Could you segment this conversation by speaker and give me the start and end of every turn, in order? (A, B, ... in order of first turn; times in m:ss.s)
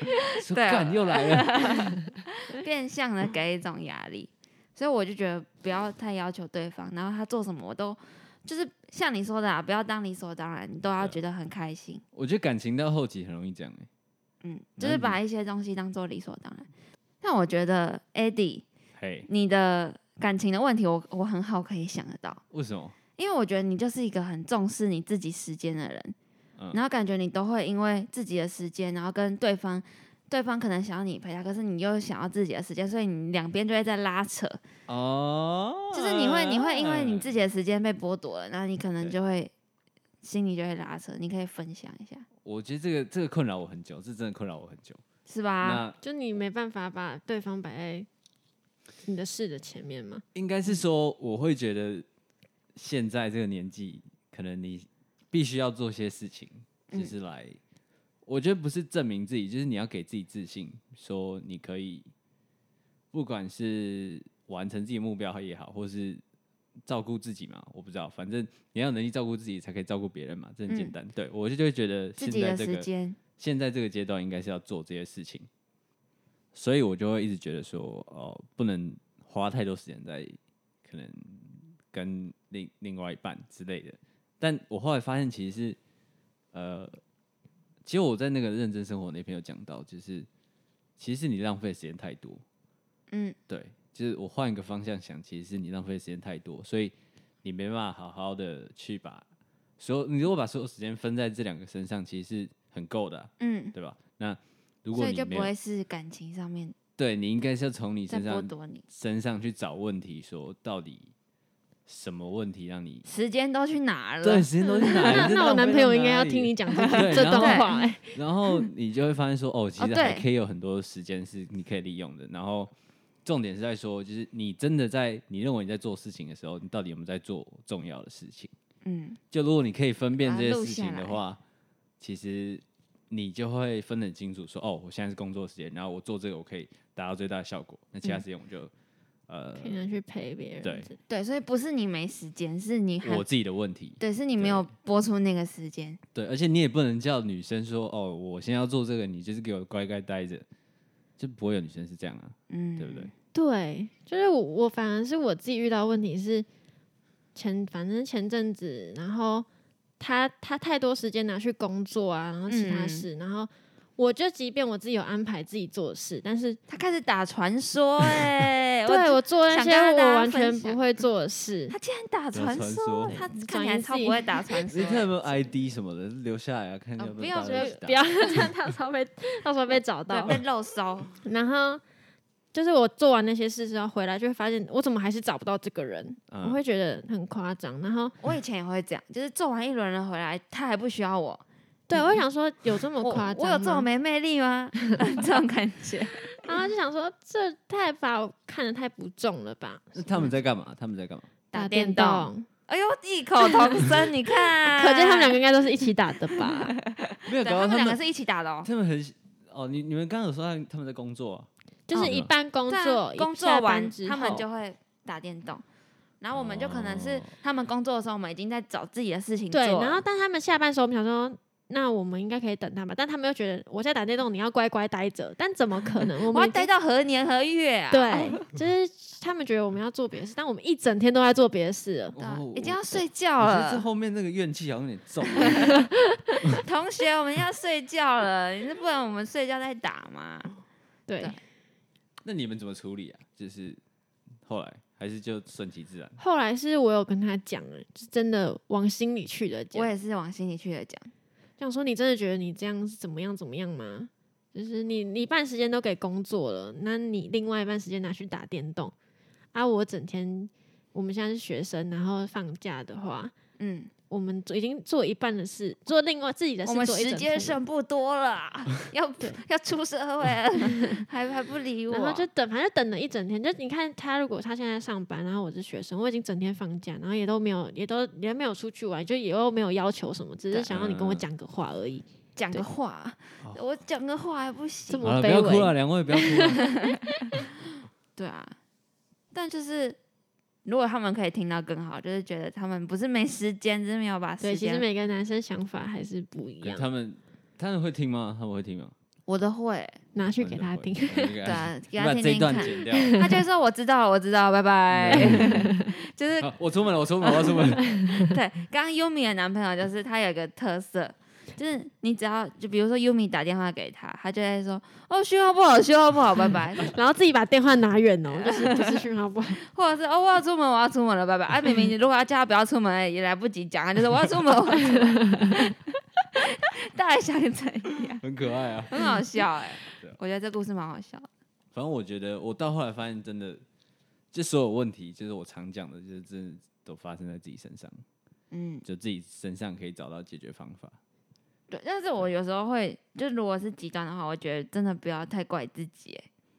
0:00.3-0:01.9 A
0:00.3-0:12.0 B
0:12.1-0:13.9 A
0:14.4-0:16.7 B
0:14.8-0:15.2 A
0:17.2-0:18.6 B
0:19.0-0:19.3 A
0:19.3-0:22.4 B
0:22.5-0:23.0 A
0:23.2-0:26.1 B
0:26.7-0:34.6 B
0:34.9-0:37.4 A
0:35.9-0:39.5 B
0:40.2-0:42.2 B
0:42.4-0:45.0 A
0:45.3-0:45.8 B
0:45.6-0:46.0 A
0:46.0-0:48.1 C
0:49.0-0:50.2 C
0:50.3-0:52.0 A
0:52.7-0:57.6 A
0:58.2-1:02.1 A
1:03.1-1:06.2 A
1:06.8-1:15.5 A
1:10.7-1:10.9 B
1:12.2-1:13.2 B
1:16.5-1:25.8 A
1:26.5-1:27.0 A
1:27.8-1:30.3 A
1:31.0-1:32.4 A
1:33.1-1:33.4 B
1:33.5-1:39.2 A
1:39.8-1:45.5 A
1:43.4-1:43.7 B
1:44.9-1:46.8 B
1:47.0-1:51.1 A
1:48.1-1:48.8 B
1:51.8-1:53.0 A
1:53.0-1:55.3 B
1:54.2-2:02.7 A
1:54.6-1:58.2 C
1:56.8-1:57.8 B
1:59.8-2:00.2 B
2:03.2-2:08.5 A
2:08.8-2:09.2 B
2:09.3-2:11.4 A
2:10.2-2:11.2 B
2:12.0-2:18.7 A
2:19.3-2:19.8 A
2:19.6-2:21.0 C
2:20.6-2:20.9 A
2:21.1-2:23.2 B
2:23.0-2:24.7 A
2:24.0-2:26.0 B
2:26.1-2:30.4 A
2:31.2-2:33.1 A
2:32.5-2:33.1 B
2:33.3-2:36.4 C
2:37.3-2:39.5 C
2:40.0-2:46.6 C
2:42.5-2:43.0 B
2:46.7-2:50.8 B
2:48.8-2:51.8 C
2:51.7-2:55.1 B
2:52.3-2:53.2 A
2:53.1-2:54.3 C
2:54.7-2:58.0 A
2:57.0-2:58.4 B
2:57.4-3:00.4 C
3:00.1-3:01.2 B
3:01.2-3:01.8 C
3:02.5-3:08.1 C
3:06.3-3:06.6 A
3:08.2-3:11.4 B
3:11.9-3:13.9 C
3:13.0-3:16.4 B
3:16.4-3:20.1 C
3:19.9-3:21.3 A
3:21.5-3:25.4 B
3:21.5-3:22.5 C
3:24.6-3:26.7 C
3:26.4-3:28.7 B
3:27.2-3:28.0 A
3:28.6-3:32.3 A
3:31.9-3:34.4 C
3:31.9-3:35.6 B
3:36.2-3:40.0 B
3:36.3-3:37.3 A
3:39.5-3:46.7 C
3:46.3-3:48.4 B
3:47.9-3:52.2 C
3:52.1-3:55.9 A
3:52.2-3:53.8 B
3:56.6-4:00.5 B
4:01.1-4:01.4 C
4:02.2-4:03.8 A
4:04.4-4:06.2 A
4:06.2-4:09.9 C
4:09.7-4:11.1 B
4:11.6-4:18.9 C
4:19.5-4:23.3 C
4:23.6-4:23.9 B
4:24.1-4:27.6 C
4:26.6-4:32.3 B
4:30.6-4:31.0 C
4:31.9-4:42.6 C
4:40.6-4:41.2 A
4:42.4-4:45.1 B
4:44.9-4:47.4 C
4:45.0-4:46.6 A
4:46.7-4:48.6 B
4:49.3-4:50.0 B
4:50.6-4:54.8 B
4:54.4-4:56.9 C
4:56.6-4:58.9 A
4:59.3-5:00.0 B
5:00.1-5:01.3 C
5:00.4-5:03.2 A
5:01.4-5:06.5 B
5:02.7-5:03.3 C
5:04.9-5:05.7 A
5:05.1-5:05.9 C
5:06.4-5:08.2 A
5:07.2-5:16.9 B
5:08.0-5:08.3 C
5:16.8-5:19.6 C
5:18.3-5:19.0 B
5:19.6-5:28.2 B
5:24.9-5:25.5 C
5:28.2-5:29.1 A
5:28.9-5:31.3 B
5:29.9-5:30.2 A
5:31.7-5:33.6 A
5:34.3-5:38.0 A
5:38.5-5:38.8 B
5:38.8-5:41.0 A
5:41.7-5:46.3 B